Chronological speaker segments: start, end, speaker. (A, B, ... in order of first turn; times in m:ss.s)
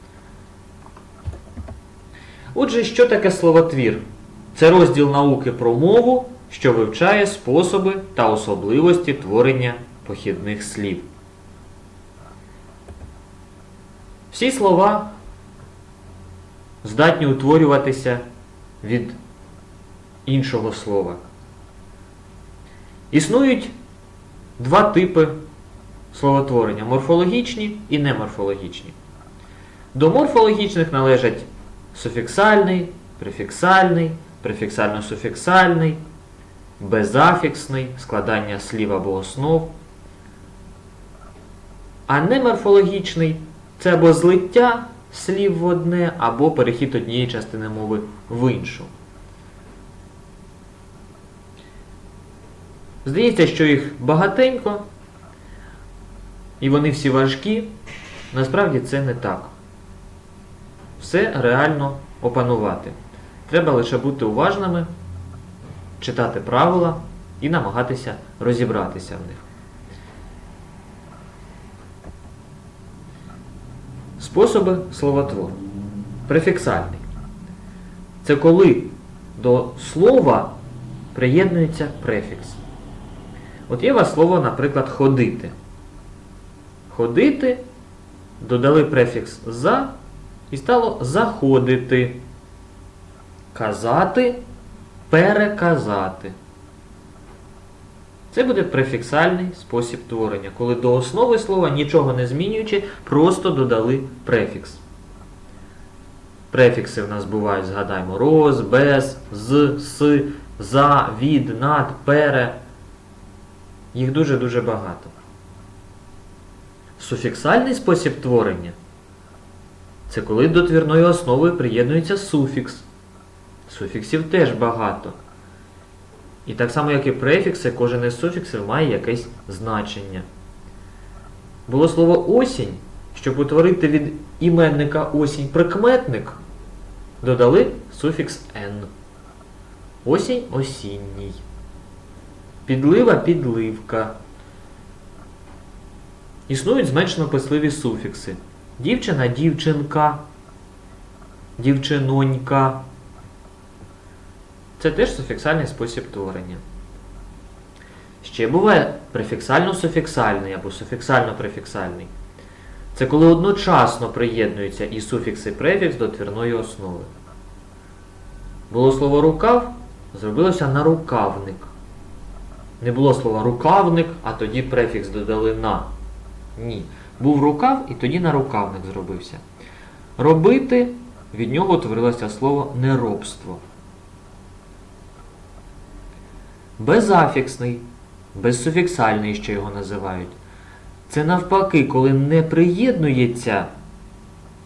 0:02.5-0:04.0 A
0:04.5-0:11.1 A
0:14.3-0:15.1 A
0:16.8-0:18.2 A
0:18.8-0:19.2 A
0:20.3-0:21.2 A
0:23.1-0:23.7 A
0:24.6-0:25.4 A
0:26.1-0:29.0 A
0:29.9-0:36.0 A
0:36.8-0:39.7 A
0:42.1-0:48.9 A
0:53.0-0:54.9 A
0:56.6-0:57.7 A
0:58.3-0:59.5 A
1:01.0-1:04.9 A
1:06.0-1:09.4 A
1:14.2-1:15.6 A
1:16.3-1:17.0 A
1:18.2-1:20.6 A
1:21.1-1:22.6 A
1:23.7-1:25.5 A
1:26.9-1:27.6 A
1:28.4-1:29.9 A
1:30.5-1:32.2 A
1:33.5-1:34.4 A
1:35.1-1:36.4 A
1:38.3-1:44.8 A
1:46.5-1:52.6 A
1:53.9-1:55.1 A
1:57.0-1:58.8 A
2:00.1-2:02.9 A
2:03.7-2:05.2 A
2:06.5-2:10.3 A
2:11.7-2:16.4 A
2:17.2-2:18.9 A
2:20.0-2:21.4 A
2:22.7-2:24.2 A
2:26.5-2:30.2 A
2:31.6-2:32.8 A
2:34.8-2:36.6 A
2:38.2-2:42.1 A
2:42.9-2:47.1 A
2:48.7-2:51.7 A
2:52.8-2:55.9 A
2:56.6-2:59.4 A
3:00.2-3:03.6 A
3:06.8-3:10.4 A
3:11.1-3:13.7 A